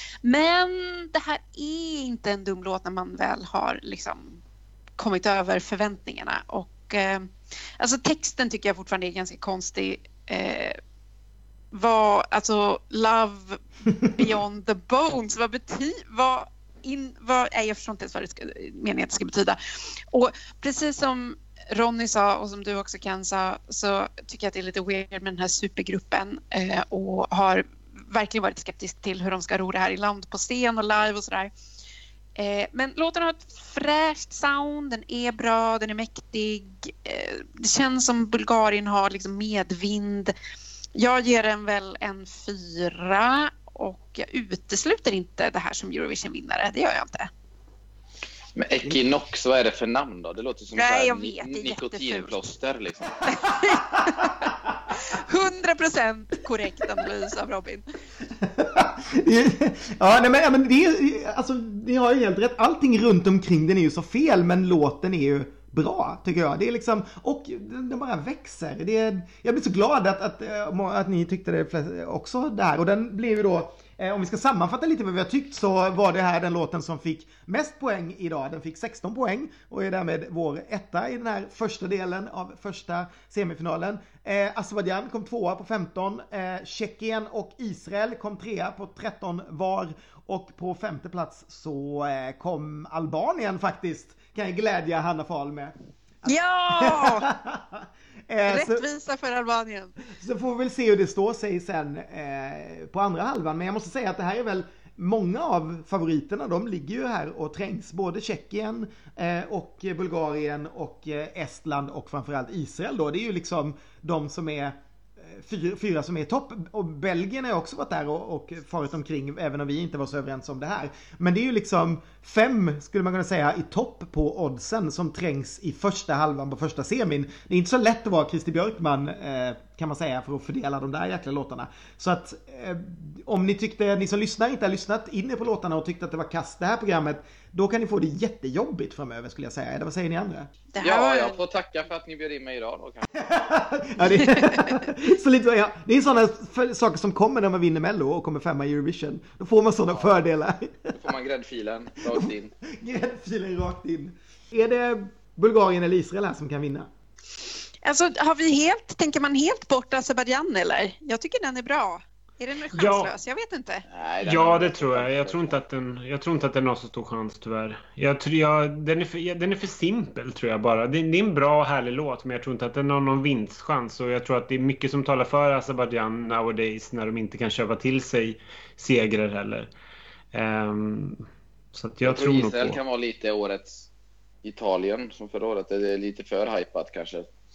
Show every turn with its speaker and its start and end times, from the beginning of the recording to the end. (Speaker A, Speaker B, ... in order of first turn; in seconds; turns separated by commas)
Speaker A: 0.2-4.4, Speaker A: 5.0-10.8, Speaker A: 11.7-31.5, Speaker A: 32.4-40.3, Speaker A: 41.0-47.3, Speaker B: 48.5-53.5, Speaker A: 50.8-52.4, Speaker A: 53.3-57.8, Speaker C: 58.4-95.7, Speaker A: 96.2-97.3, Speaker C: 96.3-98.8, Speaker A: 98.5-100.0, Speaker C: 100.1-140.5, Speaker A: 140.7-141.4, Speaker B: 140.8-143.1, Speaker C: 143.2-151.0, Speaker B: 150.9-152.5, Speaker C: 152.1-156.9, Speaker A: 157.8-163.9, Speaker D: 162.7-163.1, Speaker B: 163.9-165.6, Speaker D: 164.2-179.7, Speaker D: 180.3-181.2, Speaker D: 181.7-182.8, Speaker B: 182.0-183.9, Speaker B: 184.4-187.3